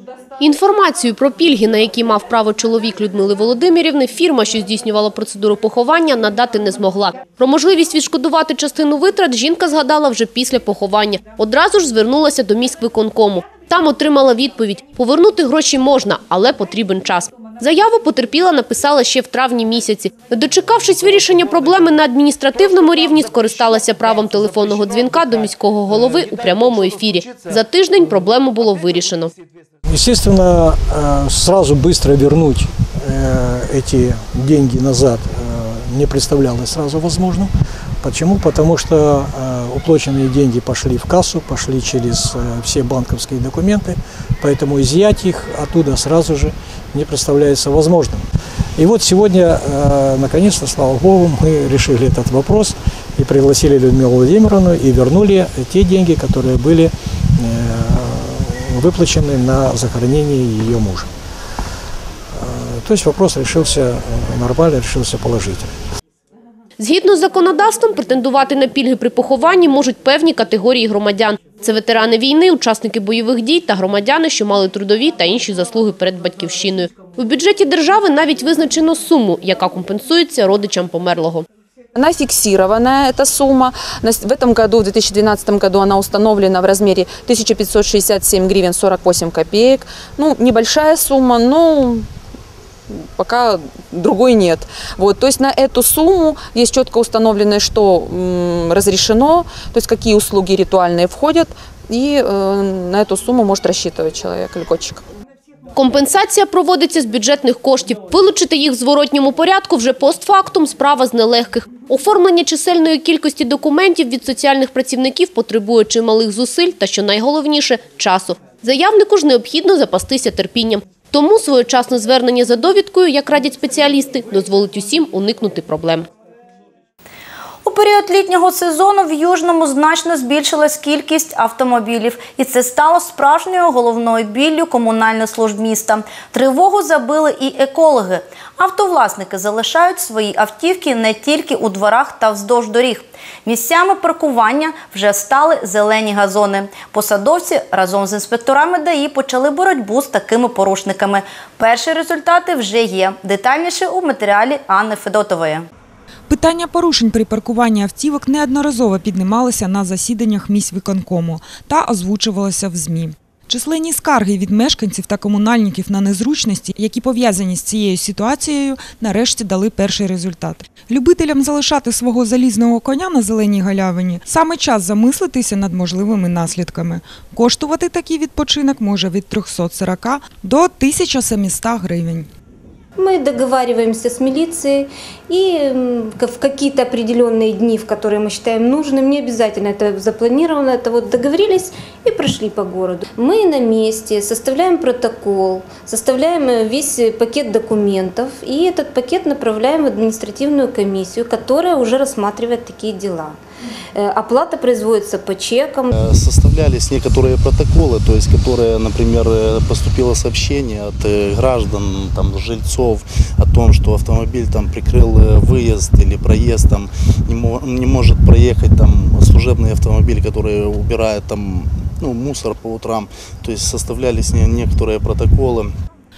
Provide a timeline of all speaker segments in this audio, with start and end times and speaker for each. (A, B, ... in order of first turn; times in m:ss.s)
0:00.4-0:29.3 A
0:29.9-0:37.5 B
0:38.0-0:48.2 B
0:48.8-1:01.1 B
1:02.4-1:05.7 B
1:06.8-1:21.5 A
1:22.0-1:32.0 C
1:33.2-1:45.0 C
1:45.8-2:06.1 A
2:07.6-2:35.7 D
2:36.3-3:02.3 E
3:03.0-3:23.4 F
3:24.0-3:25.9 F
3:25.9-3:45.7 G